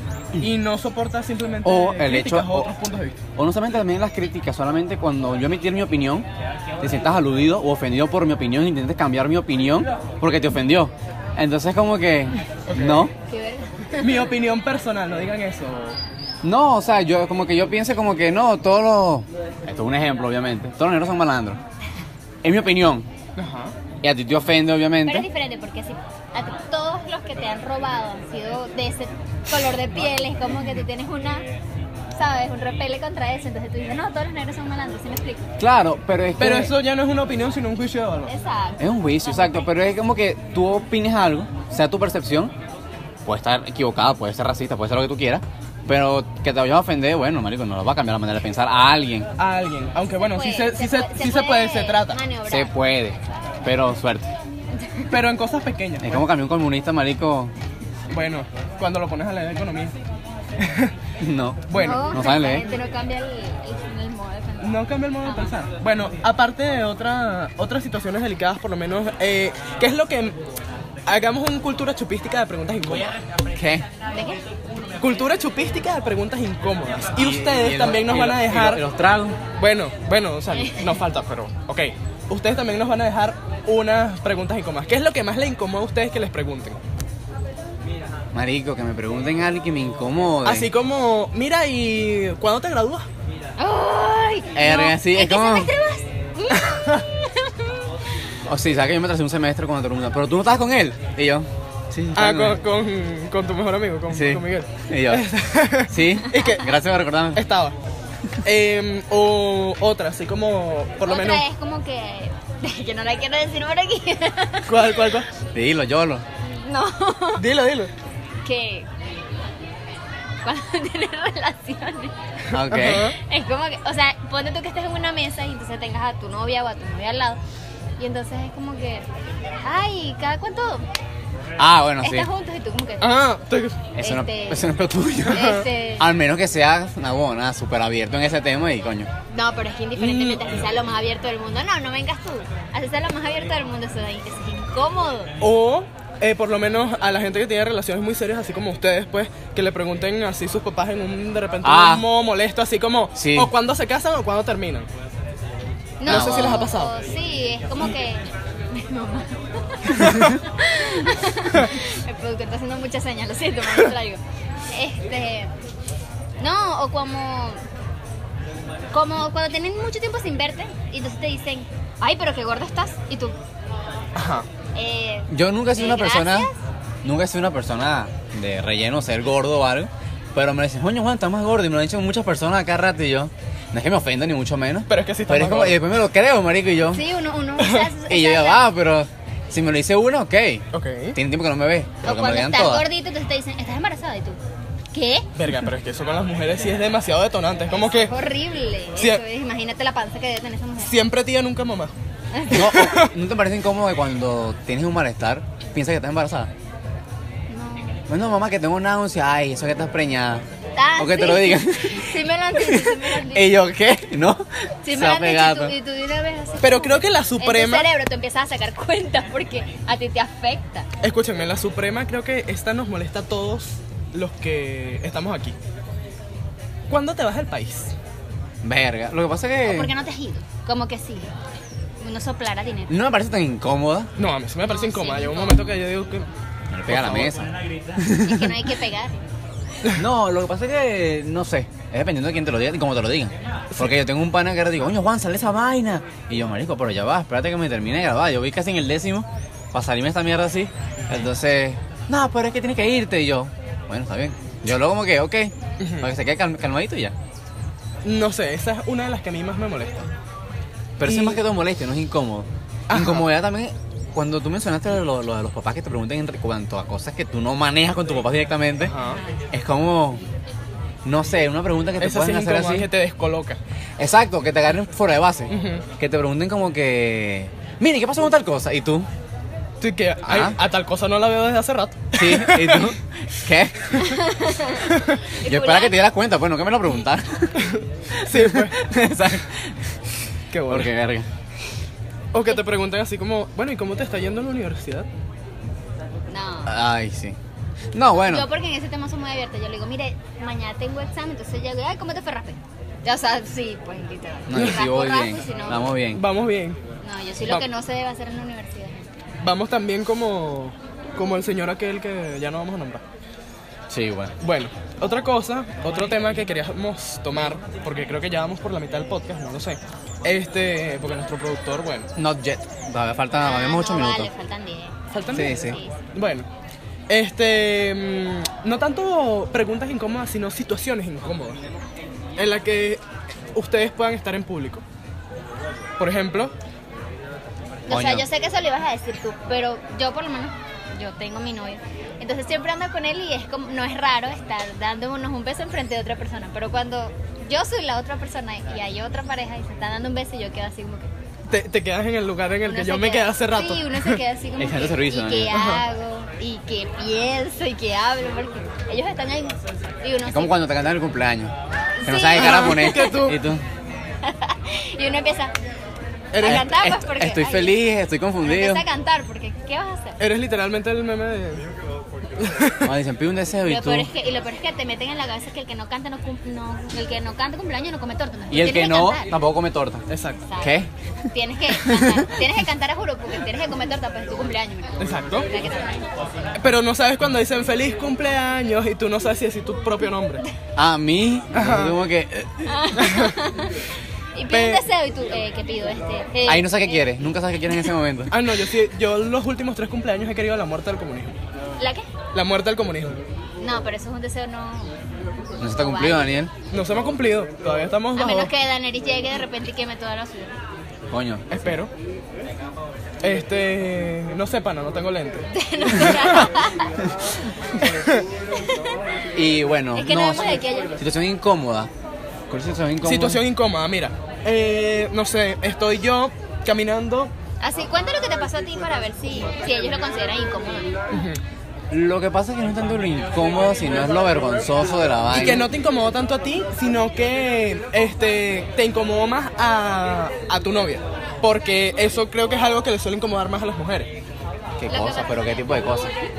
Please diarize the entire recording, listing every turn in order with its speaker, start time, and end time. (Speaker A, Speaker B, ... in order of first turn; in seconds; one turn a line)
Speaker A: 0.4-3.2
Speaker B: 1.6-2.7
Speaker B: 3.4-6.3
Speaker B: 6.8-13.1
Speaker A: 12.7-13.1
Speaker C: 13.3-14.3
Speaker A: 14.0-16.0
Speaker B: 16.4-21.6
Speaker B: 22.4-23.1
Speaker A: 23.4-23.8
Speaker B: 24.0-25.3
Speaker C: 25.1-31.4
Speaker C: 32.1-35.5
Speaker B: 35.6-36.7
Speaker A: 36.4-38.3
Speaker C: 38.3-39.7
Speaker B: 38.8-42.5
Speaker B: 43.2-49.3
Speaker A: 49.4-52.2
Speaker C: 50.2-52.8
Speaker B: 52.5-54.3
Speaker C: 54.8-55.1
Speaker A: 55.1-56.2
Speaker B: 56.0-57.5
Speaker A: 58.1-59.9
Speaker A: 60.6-60.9
Speaker B: 61.2-62.7
Speaker A: 61.7-62.1
Speaker C: 61.8-65.5
Speaker A: 64.6-70.4
Speaker A: 71.1-73.2
Speaker B: 73.5-73.9
Speaker C: 74.1-74.4
Speaker A: 75.0-78.8
Speaker B: 77.1-79.4
Speaker A: 79.6-86.8
Speaker B: 88.3-90.7
Speaker A: 90.5-93.1
Speaker C: 93.6-97.8
Speaker B: 94.5-95.7
Speaker B: 98.5-102.6
Speaker A: 102.2-106.7
Speaker B: 104.1-105.2
Speaker B: 105.9-107.4
Speaker A: 107.3-107.8
Speaker A: 108.4-111.5
Speaker C: 111.1-114.9
Speaker A: 114.7-115.3
Speaker B: 115.5-116.2
Speaker C: 116.5-117.5
Speaker A: 117.4-117.9
Speaker C: 118.4-118.9
Speaker C: 120.4-122.1
Speaker A: 122.5-123.2
Speaker B: 122.5-123.1
Speaker C: 123.2-127.4
Speaker C: 128.0-129.1
Speaker C: 129.6-130.9
Speaker B: 131.6-132.3
Speaker C: 132.0-133.1
Speaker A: 133.0-133.9
Speaker B: 134.0-139.1
Speaker C: 134.0-134.8
Speaker A: 135.2-135.7
Speaker C: 135.3-136.1
Speaker C: 139.3-145.3
Speaker A: 140.0-140.6
Speaker A: 145.4-154.9
Speaker B: 151.6-152.0
Speaker B: 153.2-153.5
Speaker C: 156.0-164.2
Speaker B: 156.1-156.7
Speaker A: 156.1-156.9
Speaker C: 164.7-165.5
Speaker C: 166.4-167.6
Speaker C: 168.9-173.3
Speaker A: 174.2-174.5
Speaker C: 174.8-176.6
Speaker B: 175.3-176.5
Speaker B: 177.0-187.0
Speaker A: 184.9-185.9
Speaker C: 186.9-188.7
Speaker A: 187.6-187.9
Speaker B: 188.1-192.9
Speaker A: 190.7-191.2
Speaker C: 192.0-194.4
Speaker C: 194.9-195.3
Speaker A: 195.4-198.1
Speaker C: 197.7-201.0
Speaker A: 199.0-199.2
Speaker A: 200.8-201.9
Speaker C: 202.3-202.7
Speaker B: 202.5-206.5
Speaker A: 202.5-203.1
Speaker C: 207.5-208.0
Speaker B: 208.1-210.4
Speaker C: 210.8-213.6
Speaker B: 211.0-215.8
Speaker C: 214.8-220.9
Speaker A: 216.6-217.9
Speaker A: 221.0-225.6
Speaker A: 226.9-227.9
Speaker B: 228.6-229.9
Speaker C: 229.6-231.3
Speaker C: 232.0-233.0
Speaker B: 232.9-234.1
Speaker A: 234.2-236.3
Speaker C: 234.6-235.7
Speaker B: 236.7-238.5
Speaker A: 236.9-237.3
Speaker C: 238.2-239.2
Speaker B: 239.9-257.1
Speaker A: 255.8-256.1
Speaker A: 258.1-260.1
Speaker B: 261.0-268.9
Speaker A: 261.0-261.4
Speaker A: 262.9-263.3
Speaker A: 268.8-269.2
Speaker B: 269.5-270.2
Speaker B: 271.1-272.9
Speaker A: 272.0-273.6
Speaker B: 274.0-279.1
Speaker A: 275.5-275.9
Speaker A: 279.8-282.9
Speaker B: 280.3-280.6
Speaker B: 282.1-284.2
Speaker C: 284.0-286.1
Speaker A: 284.9-285.2
Speaker B: 285.4-289.9
Speaker A: 287.6-288.8
Speaker A: 290.5-290.9
Speaker B: 290.7-291.3
Speaker A: 292.3-295.1
Speaker C: 296.3-296.7
Speaker B: 296.7-297.4
Speaker B: 297.9-298.5
Speaker C: 298.2-305.9
Speaker B: 304.5-306.2
Speaker A: 304.5-304.9
Speaker A: 306.1-306.8
Speaker C: 307.0-309.1
Speaker A: 307.4-307.7
Speaker A: 309.4-313.0
Speaker B: 313.9-314.4
Speaker A: 314.4-322.1
Speaker B: 322.2-324.3
Speaker C: 323.4-326.0
Speaker A: 325.1-326.5
Speaker B: 325.3-325.8
Speaker A: 327.1-331.6
Speaker A: 332.4-333.0
Speaker A: 333.6-334.8
Speaker A: 336.0-336.5
Speaker C: 337.9-351.1
Speaker B: 337.9-338.3
Speaker A: 351.5-354.2
Speaker C: 352.7-360.6
Speaker B: 354.6-355.6
Speaker A: 355.5-355.9
Speaker B: 360.3-363.6
Speaker C: 362.0-363.3
Speaker A: 362.4-363.4
Speaker C: 364.2-365.5
Speaker A: 366.3-366.7
Speaker C: 366.4-367.9
Speaker B: 366.4-368.8
Speaker C: 368.4-370.2
Speaker A: 370.2-371.7
Speaker A: 372.4-372.9
Speaker B: 372.8-374.1
Speaker C: 373.6-379.3
Speaker B: 378.5-380.0
Speaker A: 380.1-380.4
Speaker C: 380.4-380.8
Speaker B: 380.6-380.9
Speaker C: 381.3-386.1
Speaker B: 381.8-382.1
Speaker A: 385.0-385.5
Speaker A: 386.6-390.4
Speaker B: 390.8-392.6
Speaker A: 391.5-392.0
Speaker C: 392.7-393.8
Speaker A: 393.0-393.4
Speaker C: 394.4-397.3
Speaker A: 394.5-394.9
Speaker B: 396.5-398.4
Speaker A: 398.3-401.4
Speaker C: 401.8-402.1
Speaker A: 402.3-403.2
Speaker C: 403.6-404.9
Speaker B: 405.6-406.5
Speaker C: 405.7-406.4
Speaker A: 406.7-408.5
Speaker C: 408.1-410.6
Speaker B: 411.1-411.7
Speaker A: 411.5-411.9
Speaker A: 413.2-416.5
Speaker C: 415.5-416.9
Speaker C: 418.6-418.9
Speaker B: 419.3-421.9
Speaker C: 419.9-421.0
Speaker B: 422.5-423.4
Speaker A: 423.0-427.3
Speaker C: 427.6-430.9
Speaker A: 431.1-431.4
Speaker B: 431.9-435.7
Speaker A: 435.3-444.1
Speaker B: 444.8-446.1
Speaker C: 444.9-445.6